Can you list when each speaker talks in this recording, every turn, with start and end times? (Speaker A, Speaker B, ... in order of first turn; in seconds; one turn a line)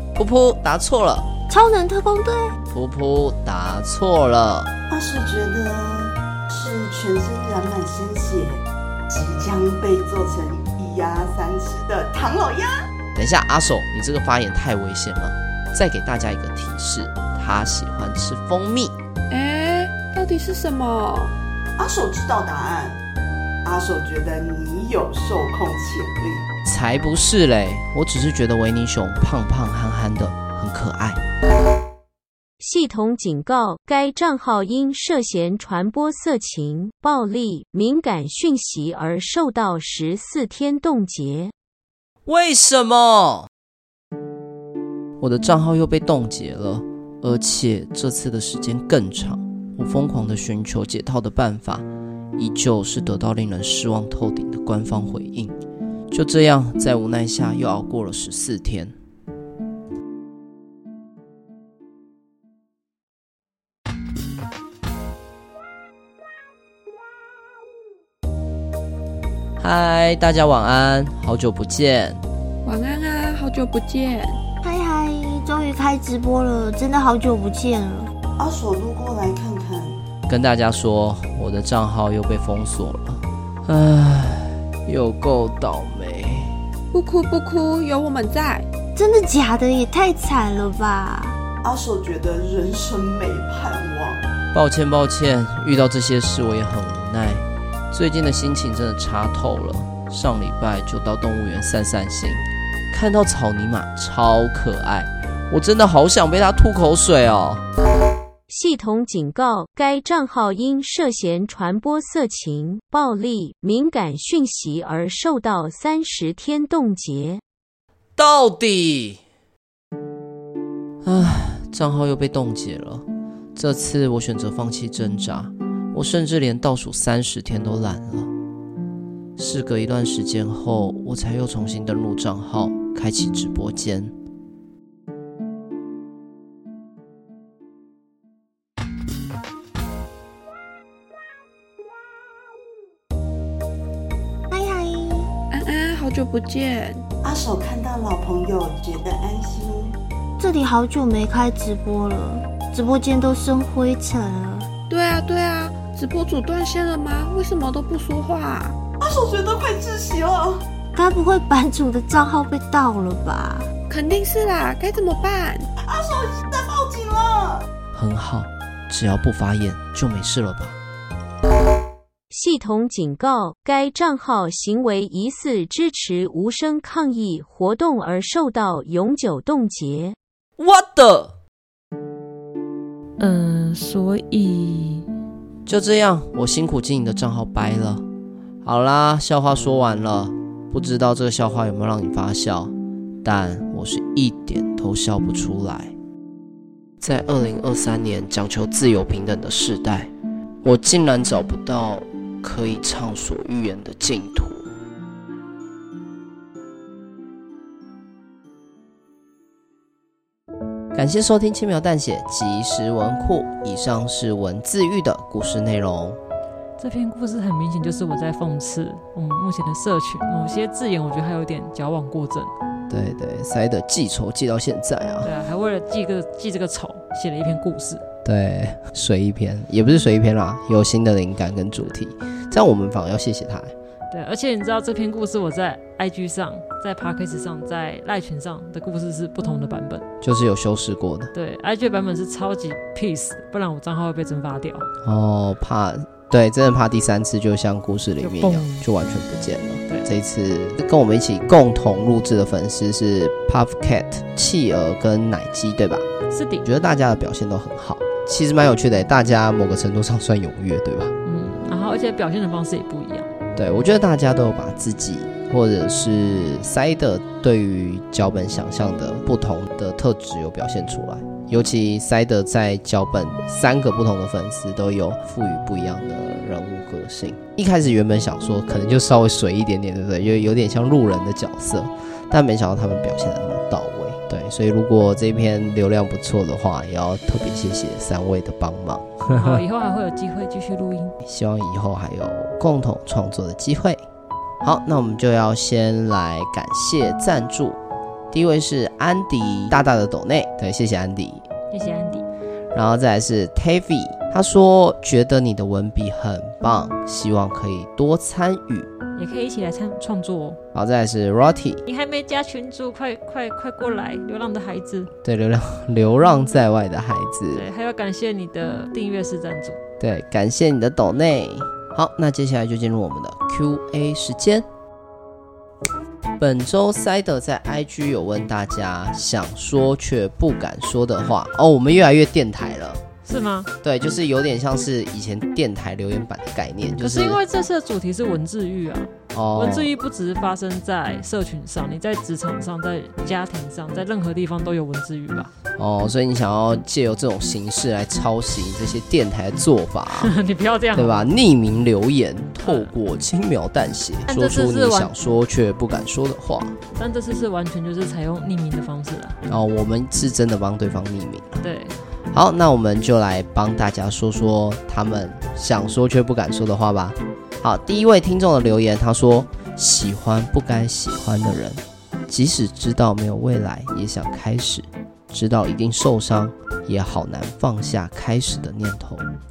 Speaker A: 0.1-1.3
Speaker B: 1.5-2.5
Speaker A: 2.7-4.7
Speaker C: 4.9-12.9
Speaker A: 13.1-18.9
Speaker D: 19.3-21.3
Speaker C: 21.8-23.0
Speaker C: 23.6-26.5
Speaker A: 26.6-31.2
Speaker E: 32.6-41.5
Speaker A: 42.2-43.5
Speaker A: 45.2-55.5
Speaker A: 56.1-58.9
Speaker A: 69.6-72.2
Speaker D: 72.6-74.4
Speaker B: 74.6-78.1
Speaker C: 78.4-80.0
Speaker A: 80.3-86.6
Speaker D: 86.9-88.7
Speaker B: 88.9-91.4
Speaker C: 91.6-94.3
Speaker A: 94.5-107.6
Speaker E: 108.5-117.4
Speaker A: 118.2-119.2
Speaker A: 121.0-128.3
Speaker A: 129.4-134.1
Speaker B: 144.5-145.3
Speaker D: 145.5-147.0
Speaker C: 147.2-149.9
Speaker B: 150.4-154.7
Speaker D: 154.9-158.8
Speaker C: 159.0-160.6
Speaker B: 160.9-163.7
Speaker D: 163.9-165.7
Speaker C: 165.8-167.7
Speaker A: 167.9-170.8
Speaker E: 172.3-180.2
Speaker A: 180.6-181.3
Speaker F: 183.2-185.1
Speaker A: 185.7-188.1
Speaker A: 188.6-195.9
Speaker A: 197.0-200.1
Speaker A: 200.6-204.6
Speaker A: 210.9-216.2
Speaker F: 216.8-222.5
Speaker A: 222.9-225.3
Speaker F: 225.2-228.0
Speaker A: 228.2-233.7
Speaker F: 234.1-240.0
Speaker A: 240.2-241.3
Speaker F: 241.3-244.9
Speaker A: 245.0-256.1
Speaker F: 248.2-248.9
Speaker F: 256.3-256.6
Speaker A: 256.6-261.1
Speaker F: 261.2-263.3
Speaker A: 263.6-289.6
Speaker F: 289.3-291.1
Speaker A: 291.2-294.0
Speaker A: 294.6-297.8
Speaker A: 298.3-301.4
Speaker F: 301.7-302.2
Speaker A: 302.7-308.9
Speaker F: 309.1-310.6
Speaker A: 310.7-311.8
Speaker F: 311.9-315.1
Speaker A: 315.2-317.6
Speaker F: 317.5-319.8
Speaker A: 320.0-324.7
Speaker A: 326.4-333.0
Speaker F: 333.2-333.7
Speaker A: 333.8-337.4
Speaker F: 337.0-345.5
Speaker A: 339.3-339.9
Speaker A: 345.7-350.3
Speaker F: 350.2-351.3
Speaker A: 350.9-356.8
Speaker F: 352.6-352.9
Speaker F: 354.3-355.1
Speaker F: 356.9-359.4
Speaker A: 359.4-361.6
Speaker F: 361.6-362.0
Speaker A: 362.3-379.3